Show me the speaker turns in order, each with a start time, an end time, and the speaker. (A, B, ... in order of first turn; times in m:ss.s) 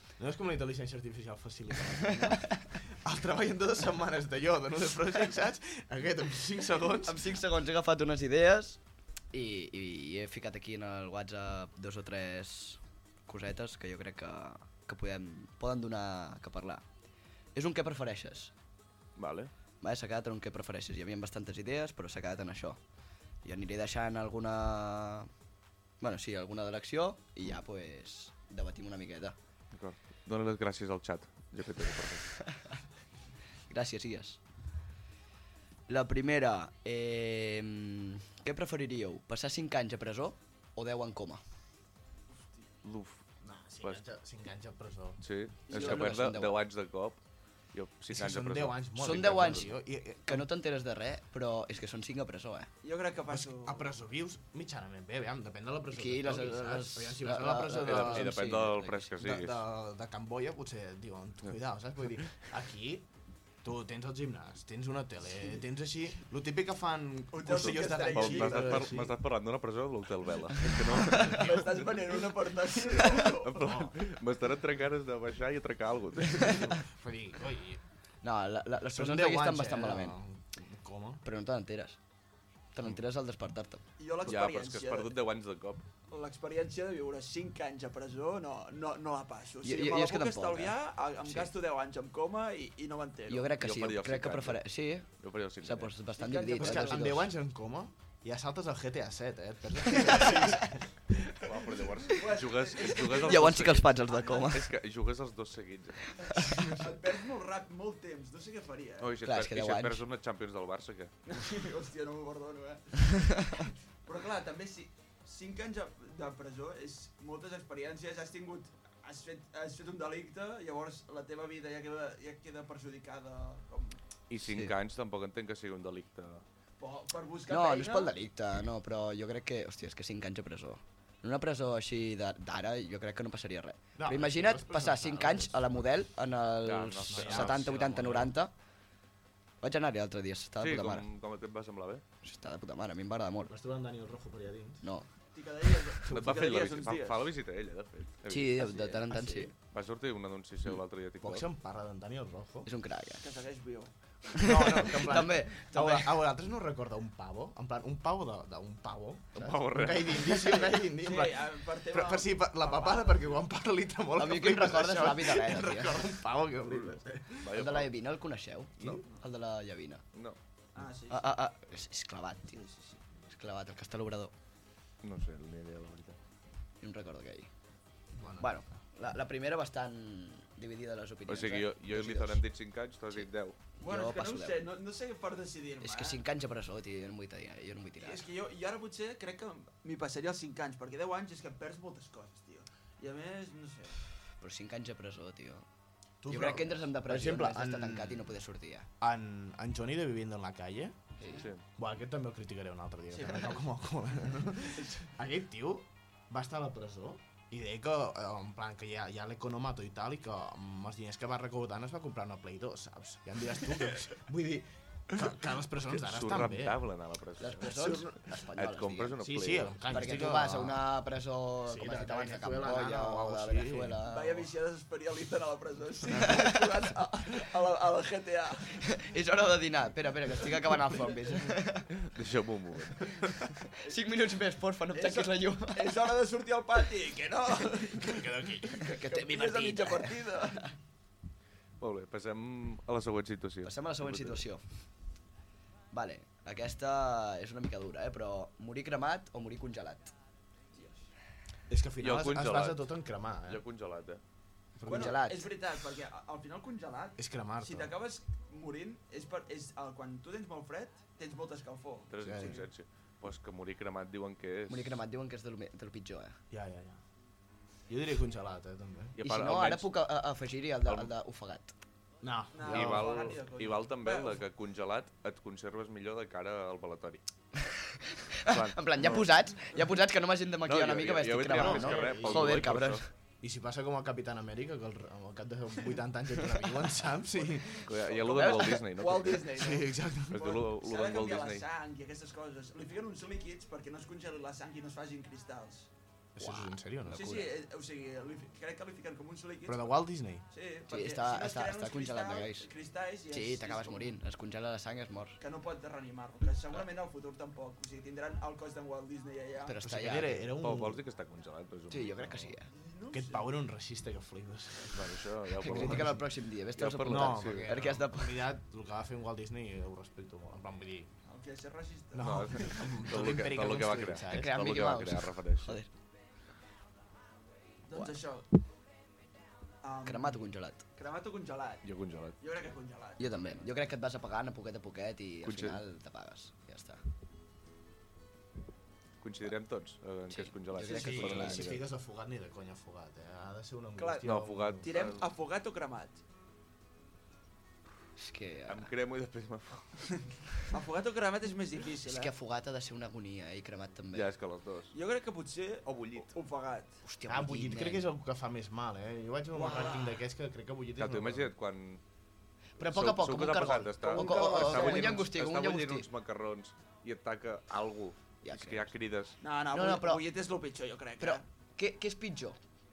0:00.2-0:07.3 A
0:02.2-0:02.6 B
0:07.0-0:08.8 B
0:09.3-0:16.8 B
0:17.6-0:18.5 B
0:19.2-0:19.5 C
0:19.8-0:22.8 B
0:23.4-0:25.3 B
0:26.0-0:29.4 B
0:29.7-0:32.3 C
0:33.7-0:34.4 B
0:35.9-0:41.4 B
0:42.8-0:43.2 C
0:43.4-0:45.2 A
0:45.2-0:47.2 C
0:45.7-0:46.2 D
0:45.7-0:46.6 B
0:47.7-0:49.7 C
0:48.1-0:50.5 A
0:49.0-0:49.7 B
0:50.2-0:52.7 B
0:52.8-0:53.9 D
0:53.3-0:58.4 A
0:55.9-0:59.1 B
0:57.8-0:59.6 C
0:59.2-1:03.1 A
1:03.6-1:09.2 A
1:07.3-1:09.0 D
1:07.5-1:11.6 C
1:10.6-1:12.2 A
1:11.2-1:13.7 D
1:13.0-1:16.8 C
1:13.5-1:13.9 A
1:16.4-1:17.8 A
1:18.2-1:20.2 B
1:18.9-1:21.2 A
1:21.2-1:22.0 B
1:22.7-1:23.8 B
1:24.0-1:25.2 D
1:24.2-1:25.8 C
1:26.1-1:33.5 D
1:29.6-1:31.5 B
1:33.3-1:35.1 B
1:33.6-1:34.6 C
1:35.2-1:35.9 C
1:35.6-1:37.3 B
1:36.2-1:37.1 D
1:36.6-1:41.7 A
1:41.4-1:46.6 C
1:42.1-1:44.5 D
1:43.2-1:44.7 B
1:46.2-1:46.7 B
1:46.7-1:49.1 D
1:49.0-1:51.1 C
1:49.2-1:50.0 B
1:51.3-2:04.0 D
2:04.3-2:06.4 C
2:04.4-2:04.7 B
2:06.8-2:08.1 D
2:07.5-2:18.5 B
2:14.0-2:15.8 A
2:16.6-2:18.3 C
2:17.1-2:18.3 A
2:19.6-2:21.1 B
2:20.6-2:22.0 C
2:22.2-2:23.5 B
2:23.5-2:24.8 A
2:24.8-2:25.1 B
2:25.3-2:27.3 D
2:26.1-2:28.8 C
2:28.3-2:29.5 B
2:29.1-2:29.5 A
2:29.6-2:31.5 C
2:31.2-2:32.7 A
2:32.7-2:33.3 B
2:33.2-2:33.9 D
2:34.4-2:36.2 B
2:34.4-2:47.6 A
2:39.4-2:40.5 C
2:41.0-2:43.4 D
2:44.2-2:46.1 B
2:46.7-2:47.9 C
2:47.5-2:50.0 B
2:50.8-2:51.4 D
2:51.1-2:52.6 B
2:52.5-2:53.0 D
2:53.3-2:54.3 B
2:55.0-2:56.2 C
2:56.8-2:57.5 B
2:58.2-2:58.8 A
2:58.4-3:02.4 B
3:01.3-3:03.6 C
3:03.1-3:04.6 B
3:03.8-3:06.2 D
3:05.8-3:08.3 B
3:08.0-3:14.0 D
3:14.4-3:15.7 B
3:16.2-3:18.3 A
3:16.3-3:18.9 B
3:19.0-3:21.1 A
3:21.2-3:21.5 B
3:21.2-3:21.5 D
3:21.8-3:36.8 A
3:23.1-3:23.6 D
3:24.7-3:25.1 D
3:35.9-3:38.0 C
3:37.4-3:39.2 B
3:37.6-3:38.0 A
3:38.6-3:40.1 C
3:39.2-3:40.9 A
3:39.9-3:44.5 B
3:41.7-3:44.0 A
3:44.0-3:48.9 D
3:46.2-3:46.6 B
3:48.9-3:51.9 B
3:51.1-3:51.5 D
3:52.0-3:53.5 C
3:53.7-3:56.1 B
3:54.9-4:00.7 D
3:58.0-3:59.3 A
3:58.8-4:00.6 B
4:01.8-4:04.4 C
4:03.6-4:04.6 B
4:05.9-4:10.1 B
4:10.7-4:11.1 D
4:11.7-4:13.6 A
4:12.0-4:12.9 C
4:13.5-4:14.2 C
4:14.8-4:15.2 A
4:14.8-4:15.5 B
4:14.9-4:22.6 D
4:17.2-4:18.0 A
4:22.1-4:25.0 C
4:22.2-4:22.6 A
4:24.7-4:26.4 B
4:26.5-4:27.0 A
4:27.9-4:29.2 A
4:29.2-4:29.9 C
4:29.2-4:31.8 B
4:30.9-4:31.1 C
4:32.2-4:33.4 A
4:32.5-4:34.4 D
4:32.6-4:37.2 C
4:37.6-4:43.1 B
4:38.4-4:39.3 C
4:40.7-4:43.0 C
4:41.5-4:42.8 A
4:43.4-4:48.1 A
4:47.4-4:55.9 D
4:47.8-4:49.6 C
4:48.3-4:48.8 B
4:49.5-4:50.6 A
4:50.3-4:51.6 C
4:56.4-4:57.3 A
4:56.4-4:57.6 B
4:57.1-5:00.0 D
4:59.7-5:00.5 A
5:00.5-5:04.2 D
5:00.9-5:02.7 B
5:03.3-5:05.4 B
5:05.4-5:09.8 D
5:09.6-5:10.5 B
5:09.8-5:11.0 A
5:10.6-5:12.5 C
5:11.9-5:12.7 B
5:12.7-5:13.5 D
5:13.1-5:16.2 A
5:14.9-5:16.2 C
5:15.6-5:18.5 B
5:16.8-5:17.9 C
5:17.0-5:21.1 A
5:21.3-5:22.9 D
5:22.1-5:24.6 A
5:22.2-5:25.8 C
5:24.3-5:25.9 B
5:27.9-5:28.5 D
5:29.8-5:31.9 D
5:30.1-5:30.8 B
5:31.8-5:32.4 C
5:32.4-5:33.6 D
5:33.2-5:37.0 B
5:35.4-5:35.8 C
5:39.2-5:41.8 C
5:40.3-5:41.8 B
5:40.9-5:44.9 A
5:44.0-5:44.3 D
5:44.2-5:45.3 C
5:44.8-5:46.2 D
5:48.2-5:48.9 B
5:48.7-5:50.2 C
5:50.7-5:52.3 D
5:52.1-5:54.3 B
5:54.1-5:55.0 C
5:54.9-5:57.0 D
5:55.9-5:56.3 C
5:57.0-5:58.1 B
5:57.3-6:01.5 A
5:59.5-6:00.2 D
6:01.0-6:02.0 C
6:02.8-6:06.1 B
6:02.8-6:09.4 C
6:04.0-6:05.1 A
6:08.4-6:08.9 B
6:09.4-6:11.4 D
6:09.7-6:10.2 B
6:11.2-6:12.6 B